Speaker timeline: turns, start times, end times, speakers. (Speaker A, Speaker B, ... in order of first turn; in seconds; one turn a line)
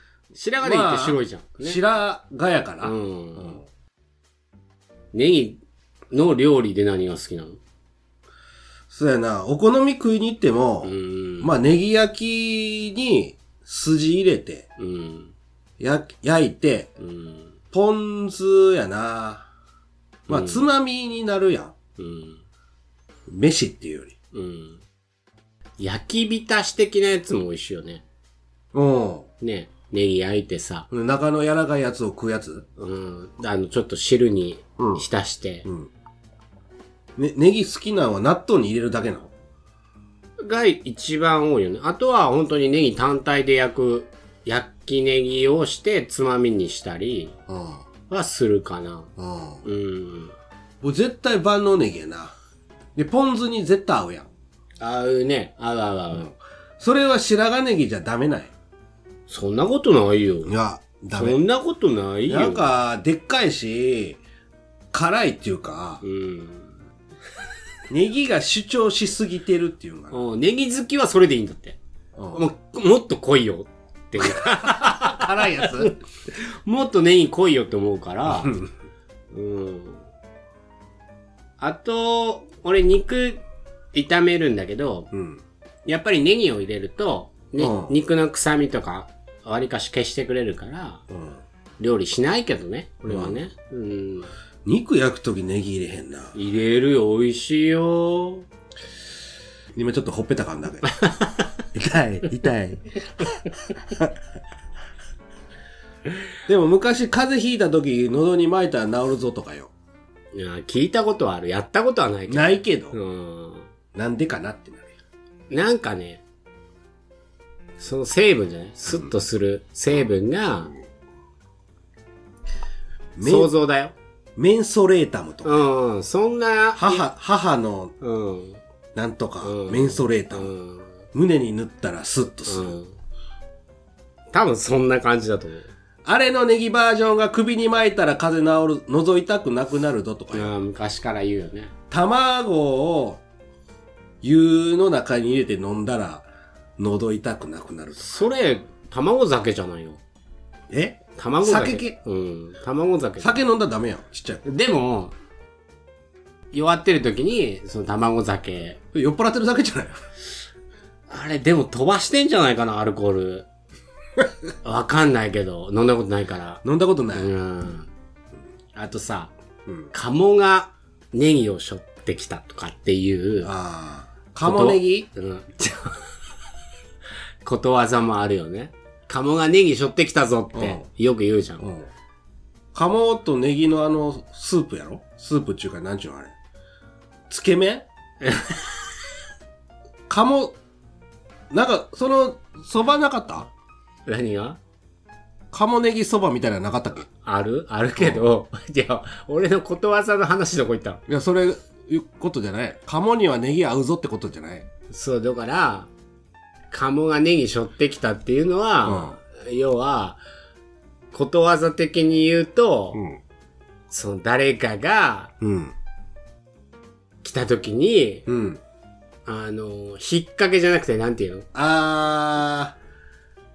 Speaker A: 0.3-1.8
Speaker B: 0.6-3.6
Speaker A: 2.8-3.6
Speaker A: 5.1-5.6
Speaker A: 6.1-7.6
Speaker B: 8.9-14.7
Speaker A: 10.8-11.5
Speaker A: 14.8-15.3
Speaker B: 15.8-16.9
Speaker A: 17.0-17.6
Speaker B: 17.7-19.5
Speaker A: 20.3-20.6
Speaker B: 20.3-21.7
Speaker A: 22.0-22.4
Speaker B: 23.3-24.1
Speaker A: 24.3-24.8
Speaker A: 25.8-28.0
Speaker B: 28.7-29.3
Speaker A: 29.4-30.9
Speaker B: 30.9-32.6
Speaker A: 32.8-35.7
Speaker B: 34.8-35.0
Speaker B: 35.6-35.9
Speaker B: 37.2-39.3
Speaker A: 40.4-47.4
Speaker B: 47.5-47.8
Speaker A: 48.1-49.1
Speaker B: 49.2-49.6
Speaker A: 49.6-50.3
Speaker B: 50.8-52.4
Speaker B: 52.9-54.3
Speaker A: 54.8-56.3
Speaker B: 56.1-58.5
Speaker A: 59.3-60.5
Speaker B: 60.4-61.4
Speaker A: 61.1-62.7
Speaker B: 62.3-64.2
Speaker B: 64.9-66.0
Speaker A: 66.0-66.7
Speaker B: 67.9-70.3
Speaker A: 70.1-71.8
Speaker B: 72.2-72.4
Speaker A: 72.3-78.6
Speaker B: 74.2-75.9
Speaker B: 78.3-78.7
Speaker A: 79.3-80.0
Speaker A: 81.6-83.4
Speaker A: 83.9-85.1
Speaker B: 85.1-85.4
Speaker A: 85.9-91.0
Speaker B: 87.6-88.0
Speaker B: 91.1-91.4
Speaker A: 91.8-94.3
Speaker B: 93.0-93.4
Speaker B: 94.6-96.3
Speaker A: 96.3-98.5
Speaker B: 99.8-100.9
Speaker A: 100.9-101.5
Speaker B: 101.7-104.1
Speaker B: 106.5-109.7
Speaker A: 110.3-113.7
Speaker B: 112.3-113.0
Speaker B: 113.9-114.9
Speaker A: 115.5-116.2
Speaker A: 117.8-120.7
Speaker B: 123.2-123.5
Speaker A: 123.2-123.9
Speaker B: 124.4-125.6
Speaker A: 125.4-127.1
Speaker B: 126.8-127.9
Speaker A: 128.0-128.6
Speaker B: 128.9-130.5
Speaker A: 129.4-130.9
Speaker B: 131.1-132.8
Speaker A: 132.5-132.9
Speaker A: 134.3-135.7
Speaker B: 136.1-140.5
Speaker A: 140.3-141.7
Speaker B: 141.9-143.2
Speaker B: 144.2-146.2
Speaker B: 146.8-148.1
Speaker A: 148.0-150.0
Speaker B: 150.7-152.0
Speaker A: 151.2-153.4
Speaker B: 153.2-154.4
Speaker A: 154.4-155.1
Speaker A: 156.5-158.8
Speaker B: 158.9-160.0
Speaker A: 161.1-163.4
Speaker A: 164.6-167.9
Speaker B: 166.6-167.3
Speaker A: 168.8-169.3
Speaker A: 169.9-173.5
Speaker B: 173.4-175.1
Speaker A: 174.4-176.0
Speaker A: 177.4-181.6
Speaker B: 180.5-180.8
Speaker B: 181.6-181.9
Speaker B: 182.7-186.3
Speaker B: 187.3-187.8
Speaker A: 188.2-188.8
Speaker B: 190.1-190.6
Speaker B: 191.5-193.5
Speaker A: 194.1-194.6
Speaker B: 195.5-197.1
Speaker A: 197.2-201.0
Speaker B: 198.0-198.2
Speaker B: 201.1-204.7
Speaker A: 204.9-205.9
Speaker A: 206.7-210.2
Speaker B: 208.8-209.2
Speaker A: 211.1-213.0
Speaker A: 213.9-215.3
Speaker B: 215.4-215.7
Speaker A: 217.2-218.3
Speaker B: 218.3-218.6
Speaker A: 219.2-221.4
Speaker B: 221.5-222.8